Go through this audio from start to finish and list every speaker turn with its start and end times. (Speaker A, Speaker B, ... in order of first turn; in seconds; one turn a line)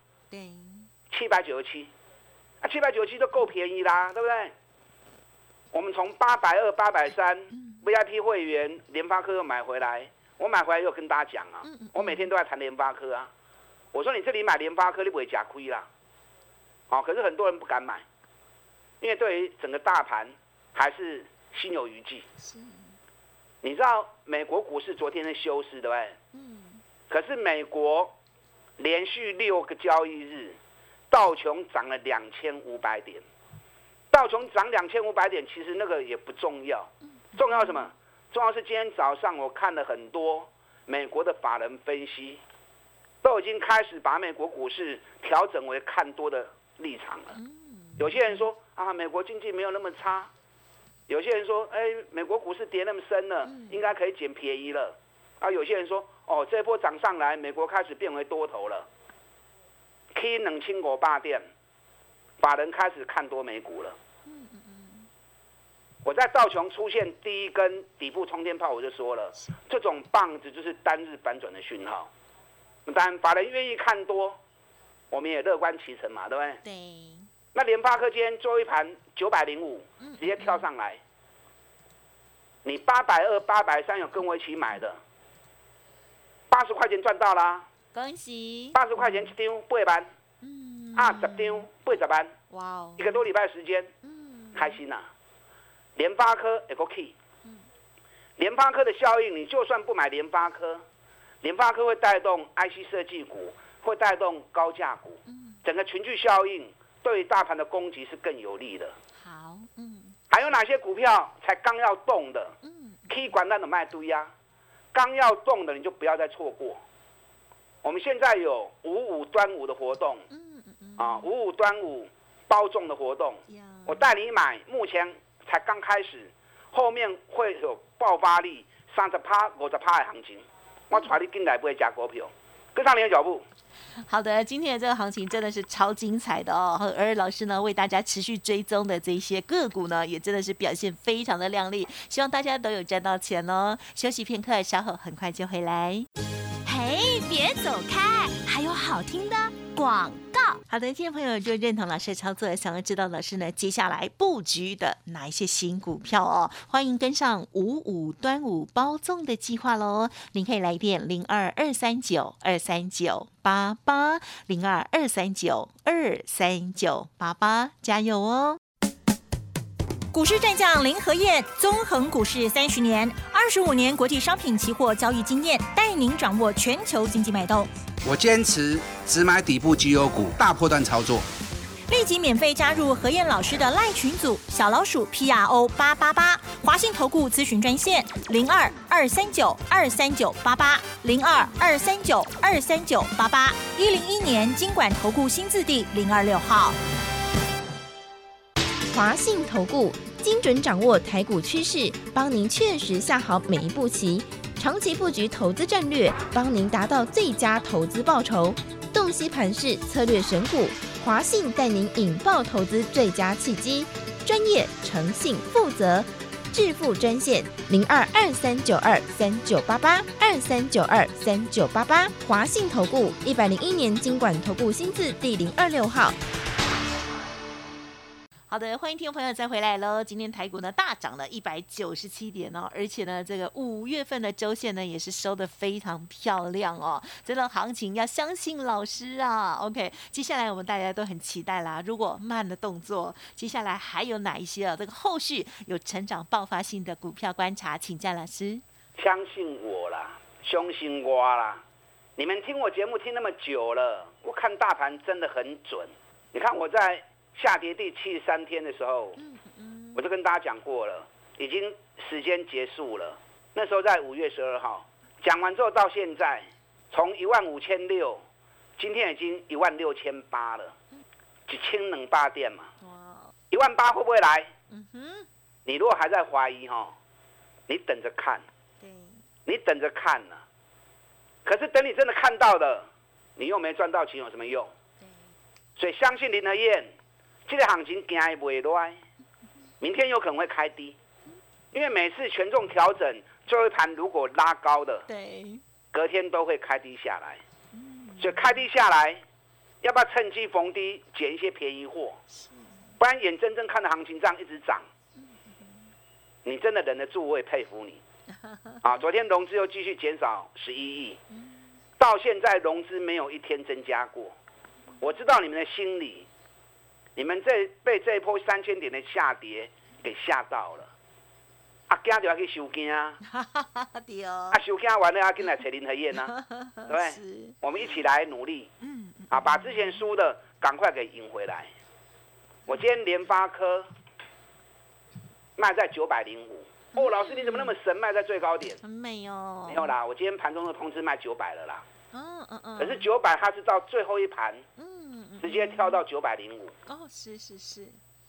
Speaker A: 0.3-0.9
Speaker B: 1.1-1.9
Speaker B: 2.6-4.5
Speaker B: 5.7-13.3
Speaker A: 7.5-7.8
Speaker A: 11.7-12.3
Speaker B: 13.9-15.9
Speaker B: 16.9-18.0
Speaker B: 19.0-22.3
Speaker A: 22.4-22.9
Speaker B: 23.6-26.2
Speaker A: 26.3-26.8
Speaker B: 27.1-28.1
Speaker B: 28.8-30.6
Speaker B: 31.1-33.2
Speaker B: 34.1-42.4
Speaker A: 37.4-37.8
Speaker B: 43.2-47.4
Speaker A: 47.4-48.4
Speaker B: 48.0-50.3
Speaker B: 51.1-58.9
Speaker A: 53.5-53.8
Speaker B: 60.1-61.5
Speaker B: 62.4-64.0
Speaker A: 64.3-65.1
Speaker B: 66.0-72.1
Speaker B: 72.9-74.4
Speaker B: 75.1-76.6
Speaker A: 76.6-77.3
Speaker B: 77.5-81.0
Speaker A: 80.0-80.7
Speaker B: 82.7-85.0
Speaker B: 86.5-87.7
Speaker A: 87.9-89.3
Speaker B: 88.7-90.1
Speaker A: 90.4-91.7
Speaker B: 91.0-92.3
Speaker A: 92.5-93.2
Speaker B: 93.0-93.9
Speaker A: 94.0-94.8
Speaker B: 94.5-95.1
Speaker B: 96.0-97.1
Speaker B: 98.4-100.8
Speaker B: 101.4-109.0
Speaker A: 105.3-105.6
Speaker A: 109.2-110.2
Speaker B: 110.3-112.6
Speaker A: 112.6-113.1
Speaker B: 113.1-114.3
Speaker B: 114.9-116.8
Speaker B: 117.8-120.2
Speaker A: 120.3-121.3
Speaker B: 121.0-133.4
Speaker A: 123.5-124.2
Speaker A: 134.1-146.1
Speaker A: 146.7-168.6
Speaker C: 170.1-177.7
Speaker D: 178.1-181.3
Speaker C: 181.9-196.8
Speaker E: 198.9-226.2
Speaker A: 228.5-248.6
Speaker B: 249.0-251.6
Speaker B: 252.2-259.2
Speaker A: 259.2-260.1
Speaker B: 259.9-268.2
Speaker B: 268.8-270.7
Speaker B: 271.5-272.7
Speaker A: 272.8-273.3
Speaker B: 273.5-274.5
Speaker A: 274.7-275.3
Speaker B: 275.7-276.9
Speaker B: 277.7-278.4
Speaker A: 278.8-279.2
Speaker B: 279.5-280.4
Speaker B: 281.4-284.7
Speaker B: 285.8-286.9
Speaker B: 287.5-289.0
Speaker B: 289.8-290.9
Speaker B: 291.7-295.1
Speaker A: 295.1-295.6
Speaker B: 295.9-297.4
Speaker A: 297.7-298.6
Speaker B: 298.2-299.2
Speaker B: 299.8-302.2
Speaker A: 302.3-302.9
Speaker B: 303.0-304.9
Speaker B: 306.4-308.0
Speaker B: 308.8-311.2
Speaker B: 312.0-314.4
Speaker B: 315.0-316.3
Speaker B: 317.2-320.9
Speaker B: 321.9-323.2
Speaker A: 323.3-324.6
Speaker B: 324.5-326.4
Speaker A: 326.3-327.6
Speaker B: 326.9-328.7
Speaker A: 328.8-330.0
Speaker B: 329.3-331.7
Speaker B: 332.7-333.9
Speaker B: 335.6-338.8
Speaker A: 336.9-337.8
Speaker A: 338.8-339.9
Speaker B: 339.7-341.8
Speaker A: 342.1-343.1
Speaker B: 342.8-344.6
Speaker A: 344.8-346.0
Speaker B: 345.4-346.7
Speaker A: 346.9-348.0